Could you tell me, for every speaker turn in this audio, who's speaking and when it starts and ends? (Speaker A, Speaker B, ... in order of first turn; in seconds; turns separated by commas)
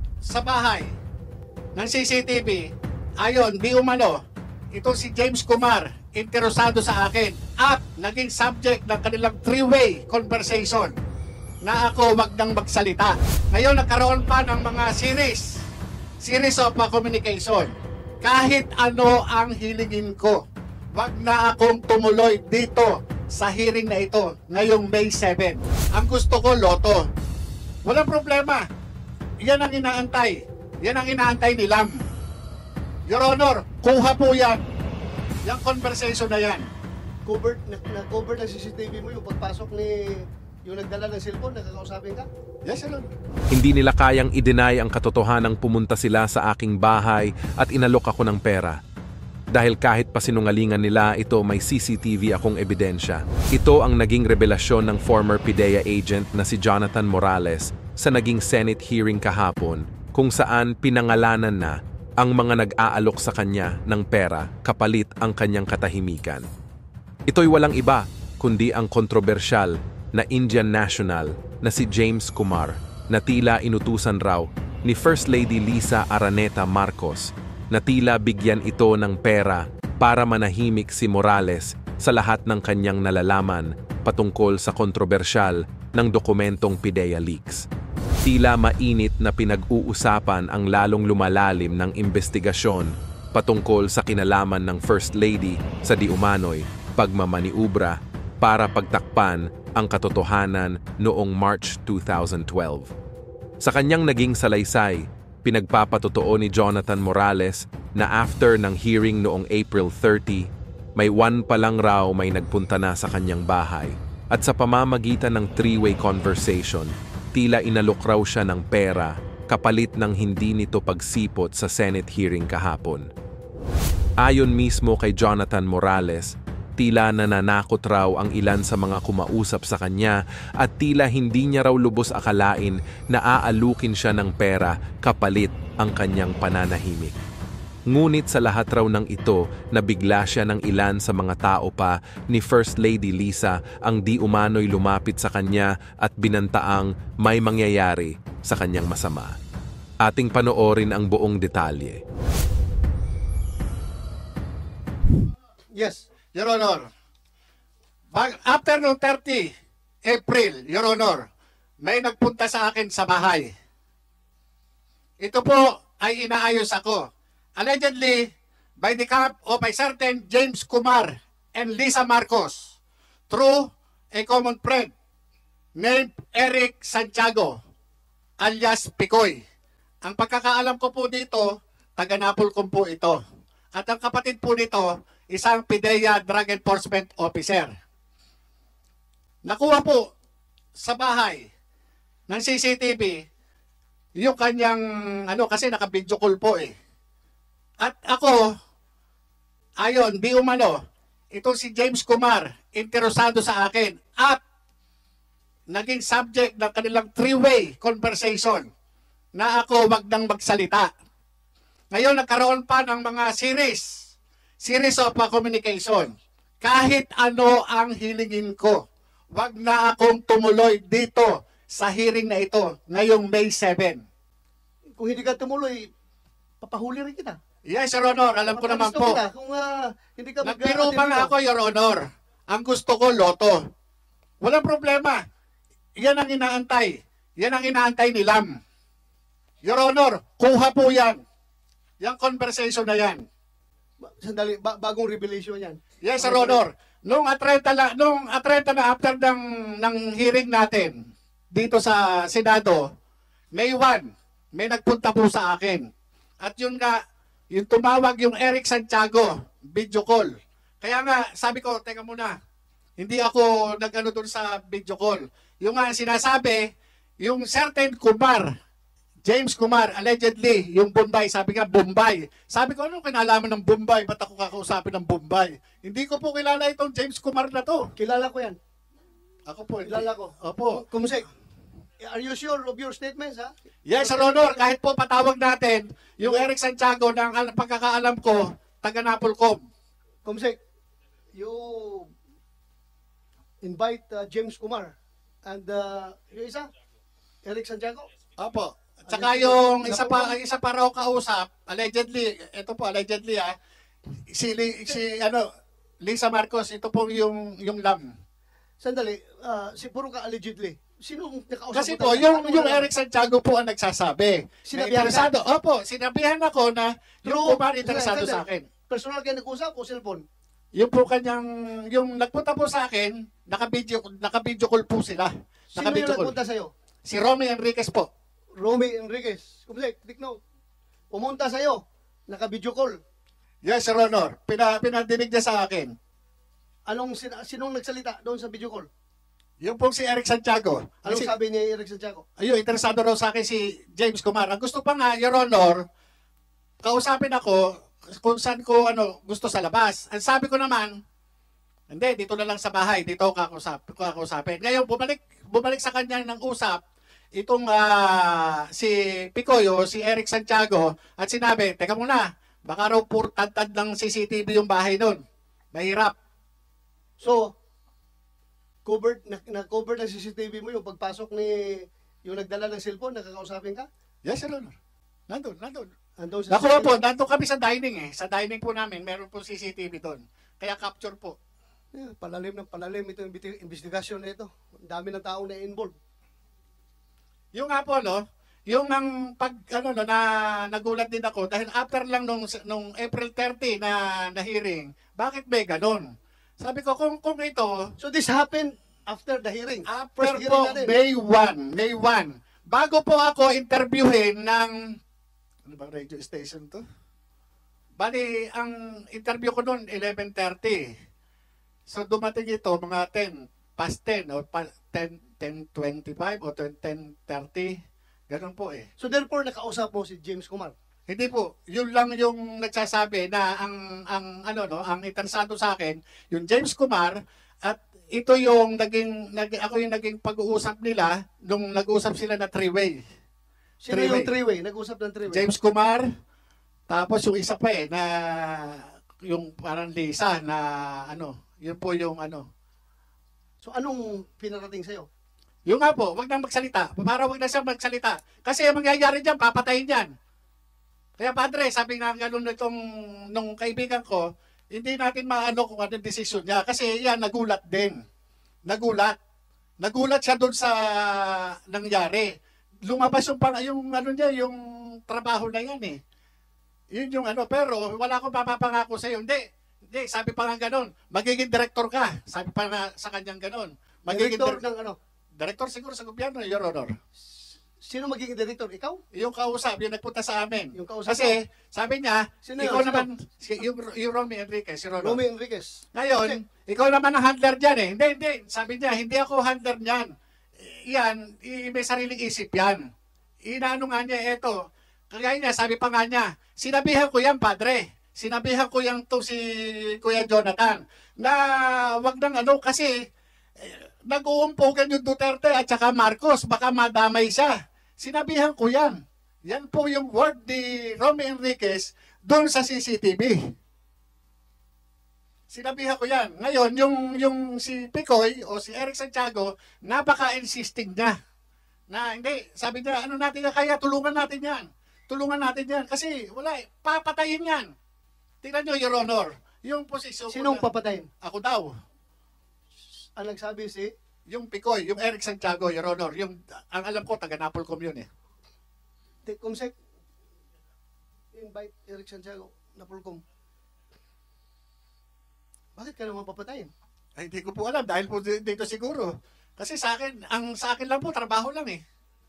Speaker A: 0.2-0.9, Speaker A: 1.8-2.6, Speaker A: 3.2-4.1, Speaker A: 4.7-10.9, Speaker A: 11.6-15.6, Speaker A: 16.2-20.4, Speaker A: 20.9-27.1, Speaker A: 27.9-28.6, Speaker A: 29.4-32.0, Speaker A: 33.1-34.6, Speaker A: 35.4-36.7, Speaker B: 37.2-42.3, Speaker A: 42.6-43.1, Speaker C: 43.5-48.8, Speaker C: 49.5-66.4, Speaker C: 67.3-87.7, Speaker C: 88.2-102.9, Speaker C: 103.6-123.1, Speaker C: 124.2-137.2, Speaker C: 137.9-149.3, Speaker C: 150.0-152.0, Speaker B: 155.7-156.0, Speaker A: 156.3-156.8, Speaker A: 158.1-159.5, Speaker A: 160.1-161.2, Speaker A: 161.8-163.5, Speaker A: 165.2-167.0, Speaker A: 167.6-168.2, Speaker A: 168.8-172.7, Speaker A: 173.3-173.6, Speaker A: 174.1-174.9, Speaker A: 175.8-177.5, Speaker A: 178.4-179.4, Speaker A: 180.0-181.4, Speaker A: 182.0-183.2, Speaker A: 183.7-187.7, Speaker A: 189.4-190.0, Speaker A: 190.8-191.4, Speaker A: 192.3-193.2, Speaker A: 194.2-196.7, Speaker A: 197.8-198.4, Speaker A: 199.8-200.7, Speaker A: 201.3-204.4, Speaker A: 205.7-208.6, Speaker A: 209.4-210.9, Speaker A: 211.9-213.9, Speaker A: 214.6-216.1, Speaker A: 216.6-218.8, Speaker A: 219.3-224.0, Speaker B: 225.0-225.9, Speaker B: 226.6-227.4, Speaker A: 227.7-229.2, Speaker B: 228.5-231.3, Speaker A: 230.4-232.0, Speaker A: 232.5-233.6, Speaker A: 234.4-235.2, Speaker A: 236.0-238.5, Speaker A: 239.6-241.2, Speaker A: 242.0-243.2, Speaker B: 244.0-246.6, Speaker A: 246.0-250.9, Speaker A: 251.5-252.8, Speaker A: 253.5-254.0, Speaker A: 254.6-255.8, Speaker A: 256.4-256.9, Speaker A: 257.5-260.3, Speaker A: 260.8-262.3, Speaker A: 263.0-266.6, Speaker A: 267.2-268.4, Speaker A: 269.2-277.8, Speaker B: 277.9-278.6, Speaker A: 279.5-280.8, Speaker B: 279.9-281.2, Speaker B: 282.0-284.6, Speaker A: 283.9-289.6, Speaker B: 290.2-290.6, Speaker B: 291.4-292.1, Speaker B: 293.6-294.9, Speaker B: 295.4-296.7, Speaker B: 297.4-298.1, Speaker A: 298.4-303.5, Speaker B: 299.1-300.4, Speaker A: 304.3-305.4, Speaker A: 306.0-308.0, Speaker B: 308.8-312.9, Speaker A: 311.7-318.6, Speaker B: 314.6-315.3, Speaker B: 317.2-320.2, Speaker A: 320.8-326.3, Speaker B: 325.8-326.7, Speaker A: 327.1-328.1, Speaker B: 328.6-330.4, Speaker B: 331.1-333.0, Speaker A: 333.6-335.9, Speaker B: 336.9-338.9, Speaker A: 339.6-341.3, Speaker B: 341.0-342.2, Speaker A: 342.4-345.8, Speaker A: 346.8-347.6, Speaker A: 348.2-350.9, Speaker A: 351.9-356.8, Speaker A: 357.4-365.2, Speaker A: 365.7-366.1, Speaker B: 367.2-367.5, Speaker B: 368.8-373.9, Speaker A: 374.2-374.7, Speaker A: 375.3-375.9, Speaker B: 376.2-376.9, Speaker A: 376.5-381.4, Speaker B: 381.9-385.9, Speaker A: 387.5-396.0, Speaker A: 396.6-397.7, Speaker B: 398.0-401.0, Speaker A: 399.9-404.7, Speaker A: 405.7-406.8, Speaker A: 408.0-410.8, Speaker A: 411.9-417.7, Speaker A: 418.3-418.8, Speaker B: 419.0-420.7, Speaker A: 421.1-433.0, Speaker B: 433.8-435.4, Speaker A: 433.9-434.3, Speaker A: 435.3-436.1, Speaker A: 436.9-442.4, Speaker B: 443.6-445.1, Speaker A: 445.7-450.1, Speaker A: 451.2-452.8, Speaker A: 453.3-454.2, Speaker A: 454.7-457.9, Speaker A: 458.7-459.1, Speaker A: 459.8-462.3, Speaker A: 462.9-466.0, Speaker A: 466.9-474.6, Speaker B: 474.1-475.0, Speaker A: 475.4-476.9, Speaker B: 477.8-479.0, Speaker A: 479.1-485.2, Speaker B: 480.7-481.3, Speaker B: 482.4-483.1, Speaker B: 485.0-486.4, Speaker A: 485.9-490.1, Speaker A: 490.6-492.8, Speaker A: 493.4-494.5, Speaker A: 495.1-499.4, Speaker A: 499.9-501.4, Speaker A: 501.9-502.9, Speaker A: 503.6-508.9, Speaker A: 509.5-513.4, Speaker A: 515.5-521.1, Speaker A: 521.9-527.7, Speaker A: 528.4-530.6, Speaker B: 530.3-531.1, Speaker A: 531.2-531.7, Speaker B: 533.1-533.9, Speaker A: 534.3-538.1, Speaker B: 539.2-539.7, Speaker B: 541.3-543.2, Speaker B: 545.8-546.7, Speaker A: 547.2-551.8